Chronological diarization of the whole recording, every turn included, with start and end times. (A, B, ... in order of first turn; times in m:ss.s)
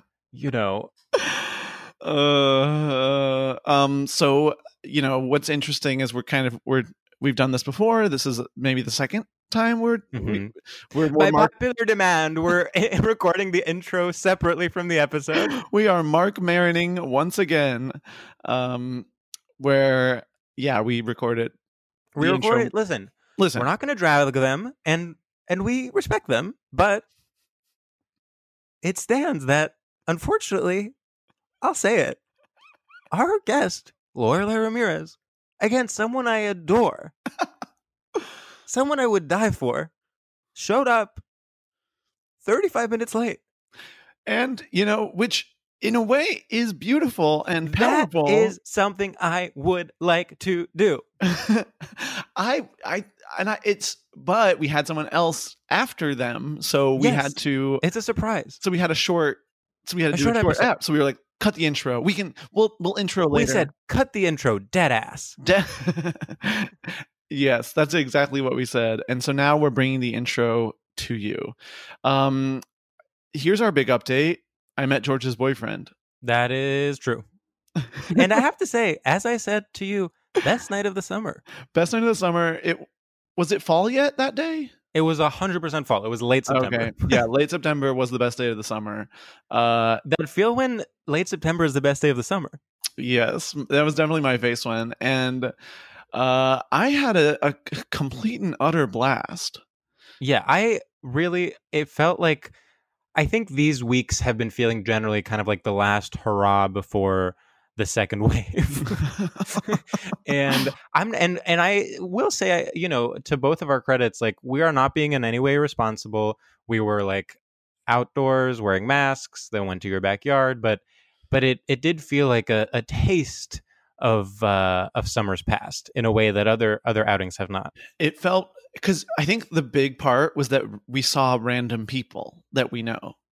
0:00.3-0:00.9 A
0:01.2-0:11.5 B
0:10.1-0:10.5 A
0:11.1-0:15.6 A
0:15.4-0:19.1 B
0:19.6-0:21.5 B
0:22.2-0:27.0 A
0:22.2-0:22.7 B
0:23.4-0:23.7 B
0:28.8-0:30.9 A
0:31.6-0:32.2 A
0:33.1-0:37.1 A
0:38.7-0:39.9 A
0:40.6-0:41.2 A
0:42.4-0:43.4 A
0:44.3-0:48.5 B
0:47.6-0:51.0 A
0:51.2-0:57.8 B
0:57.0-0:58.6 A
0:58.6-1:03.7 B
1:00.1-1:00.7 A
1:03.3-1:05.4 A
1:05.4-1:12.6 B
1:13.3-1:15.9 B
1:16.2-1:17.2 A
1:18.1-1:21.4 A
1:21.7-1:24.7 B
1:24.9-1:27.2 A
1:26.5-1:30.0 B
1:30.0-1:32.6 A
1:33.0-1:35.5 B
1:36.1-1:39.6 B
1:40.2-1:42.5 A
1:43.2-1:49.0 A
1:49.6-2:07.7 A
2:08.0-2:13.2 B